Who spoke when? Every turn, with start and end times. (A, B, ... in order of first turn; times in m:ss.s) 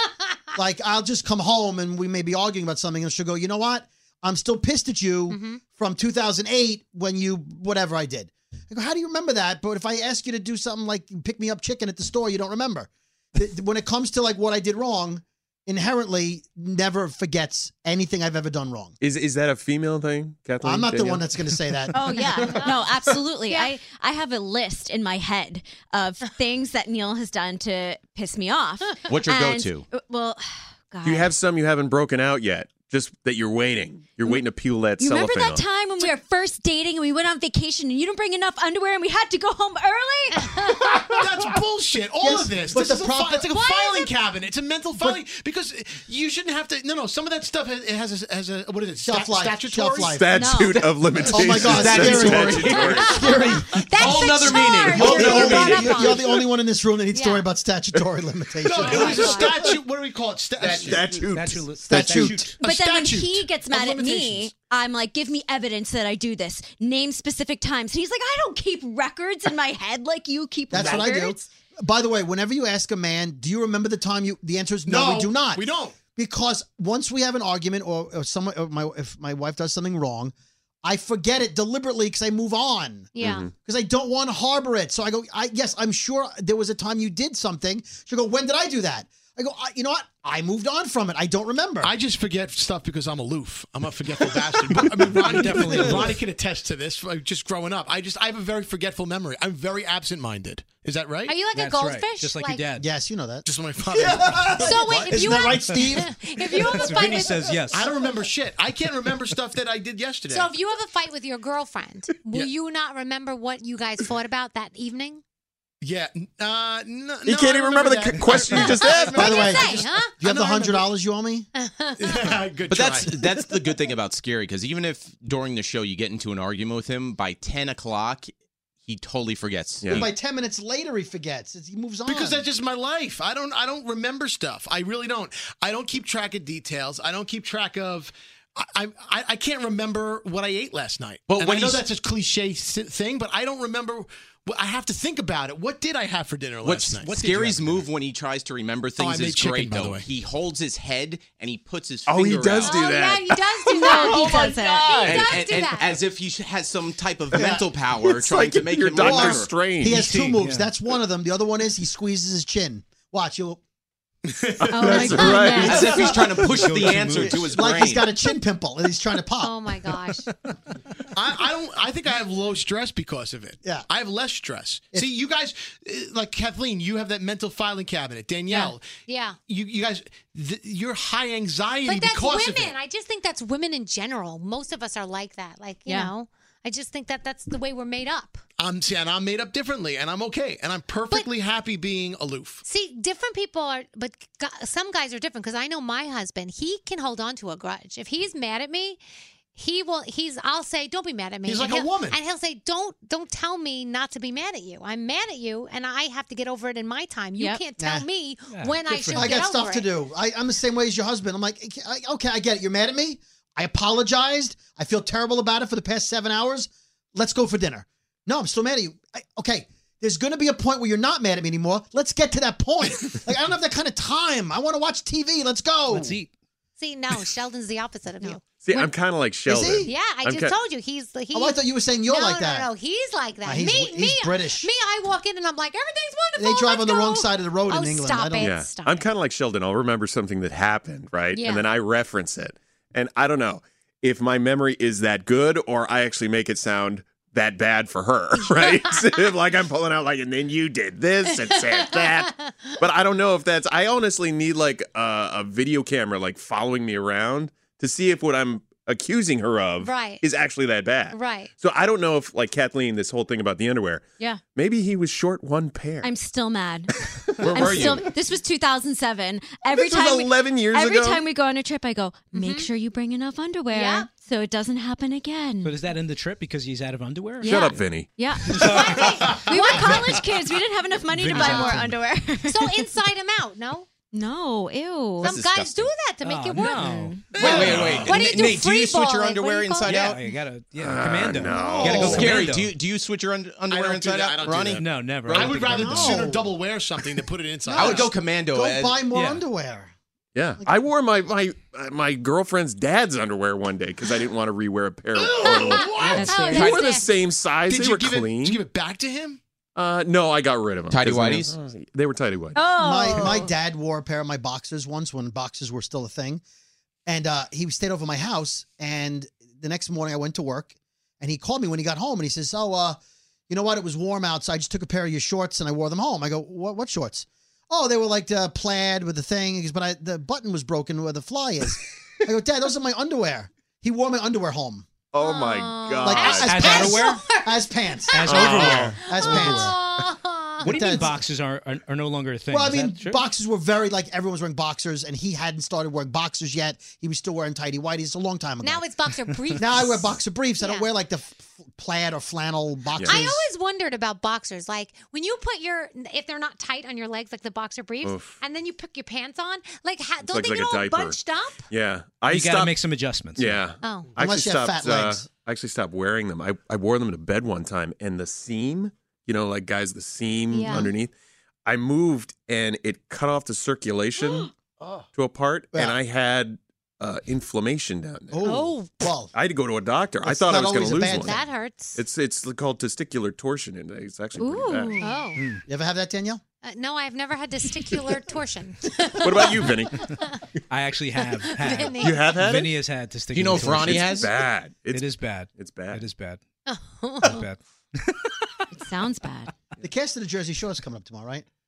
0:00.5-0:19.0 A
0:05.3-0:05.6 B
0:19.0-0:21.3 C
0:20.6-0:22.8 A
0:21.9-0:31.3 D
0:22.4-0:22.7 B
0:23.5-0:23.7 B
0:29.1-0:29.8 E
0:31.0-0:35.6 C
0:35.0-0:40.6 D
0:40.6-0:41.2 C
0:41.1-0:50.2 F
0:42.2-0:43.6 A
0:43.6-0:44.1 B
0:49.0-0:50.4 A
0:50.1-0:53.5 C
0:50.3-0:51.2 D
0:51.3-0:53.8 A
0:51.5-0:52.8 F
0:51.8-0:52.5 G
0:52.8-0:56.4 B
0:54.0-0:55.7 F
0:54.0-0:56.2 E
0:54.5-0:55.9 D
0:55.0-0:59.8 A
0:57.1-0:57.5 B
0:58.6-1:01.2 F
0:58.8-0:59.5 B
0:59.0-0:59.5 C
1:00.6-1:01.6 C
1:01.3-1:02.6 G
1:01.8-1:02.5 A
1:02.6-1:04.5 F
1:02.6-1:11.5 D
1:10.7-1:15.6 A
1:10.8-1:11.1 F
1:14.9-1:16.0 F
1:16.2-1:31.9 A
1:23.2-1:23.4 B
1:23.2-1:23.5 C
1:31.8-1:41.4 F
1:34.7-1:36.0 A
1:35.4-1:36.2 G
1:41.3-1:42.7 B
1:41.4-1:42.9 G
1:42.8-1:47.1 A
1:43.4-1:45.1 F
1:44.5-1:47.8 B
1:46.6-1:47.9 G
1:47.7-1:50.6 F
1:50.3-1:55.2 B
1:55.8-2:00.9 F
1:57.3-1:59.3 C
1:58.8-2:00.2 B
1:59.1-2:01.5 A
2:01.6-2:02.4 B
2:02.0-2:03.2 F
2:02.7-2:08.3 E
2:08.9-2:10.1 E
2:09.8-2:10.1 C
2:09.9-2:12.4 A
2:12.1-2:27.9 F
2:21.3-2:21.8 E
2:26.6-2:32.8 E
2:29.0-2:30.1 F
2:32.1-2:35.1 C
2:32.5-2:36.0 B
2:33.8-2:34.9 D
2:35.0-2:39.5 E
2:37.3-2:37.7 A
2:38.1-2:40.0 C
2:39.0-2:43.6 A
2:39.8-2:40.7 G
2:44.2-2:46.1 F
2:44.6-2:45.7 C
2:44.7-2:45.9 D
2:45.5-2:46.5 A
2:45.6-2:48.1 E
2:46.4-2:47.8 G
2:47.0-2:49.6 A
2:49.4-2:50.2 B
2:51.1-3:02.8 F
2:58.5-2:59.4 B
3:01.8-3:08.4 B
3:08.6-3:12.6 F
3:12.6-3:19.0 B
3:19.6-3:29.9 B
3:21.4-3:22.2 F
3:27.4-3:27.6 D
3:27.8-3:28.1 A
3:28.5-3:29.2 G
3:29.0-3:46.2 A
3:45.9-3:46.3 G
3:46.8-3:48.9 B
3:48.6-3:50.6 C
3:49.5-3:49.9 A
3:49.8-3:59.1 B
3:51.3-3:52.7 A
3:53.4-3:54.7 A
3:56.4-3:58.6 A
3:58.4-4:24.0 C
4:01.3-4:01.7 B
4:11.4-4:12.5 B
4:19.8-4:20.2 B
4:21.1-4:21.5 B
4:24.6-4:26.1 C
4:26.0-4:35.8 D
4:27.4-4:28.0 E
4:29.6-4:31.2 C
4:32.3-4:32.7 B
4:33.7-4:34.1 B
4:35.6-4:37.6 G
4:37.4-4:42.9 D
4:37.5-4:38.6 C
4:38.6-4:39.9 B
4:38.6-4:39.0 G
4:39.3-4:40.2 F
4:41.1-4:42.0 G
4:41.3-4:41.8 B
4:42.5-4:43.9 B
4:44.1-4:45.4 D
4:45.2-4:45.9 E
4:45.2-4:50.2 B
4:46.2-4:47.3 G
4:46.7-4:47.3 D
4:47.3-4:47.8 F
4:47.3-4:50.3 E
4:47.6-4:48.2 C
4:49.8-4:52.8 G
4:50.8-4:52.4 C
4:51.5-4:51.9 B
4:51.8-4:52.2 A
4:52.0-4:56.0 E
4:53.7-4:58.1 F
4:54.8-4:56.0 G
4:55.7-4:56.6 A
4:57.7-4:59.9 A
4:57.8-4:59.1 E
4:59.1-4:59.4 G
5:00.4-5:08.6 C
5:05.1-5:07.0 F
5:05.4-5:07.1 B
5:06.0-5:07.0 D
5:07.7-5:09.4 F
5:09.8-5:12.6 C
5:10.9-5:11.5 E
5:12.6-5:13.5 D
5:12.8-5:16.4 A
5:17.1-5:34.9 A
5:35.1-5:36.5 C
5:35.2-5:40.8 B
5:36.0-5:40.0 A
5:36.3-5:37.2 G
5:38.1-5:39.8 G
5:38.2-5:39.0 C
5:40.6-5:43.2 G
5:40.6-5:41.2 A
5:42.5-5:48.9 A
5:48.6-5:50.9 B
5:49.6-5:53.5 A
5:53.0-5:53.2 C
5:53.0-6:01.7 B
5:58.0-5:58.4 C
6:00.2-6:01.2 C
6:01.7-6:02.7 C
6:02.3-6:03.7 G
6:03.4-6:11.1 C
6:03.8-6:04.1 B
6:04.2-6:05.3 A
6:10.5-6:10.9 B
6:11.6-6:14.5 C
6:15.1-6:18.4 C
6:18.3-6:19.3 A
6:18.4-6:18.9 B
6:19.3-6:25.1 C
6:20.2-6:21.4 A
6:21.2-6:22.0 B
6:24.4-6:25.2 D
6:25.0-6:25.4 B
6:25.4-6:25.6 G
6:25.7-6:26.4 A
6:26.6-6:30.4 B
6:29.2-6:30.1 C
6:30.7-6:34.1 G
6:31.2-6:32.5 B
6:31.9-6:32.7 C
6:33.3-6:34.4 E
6:33.8-6:36.0 C
6:34.9-6:36.4 G
6:36.7-6:37.4 B
6:37.2-6:38.4 G
6:38.7-6:39.5 D
6:39.8-6:41.5 A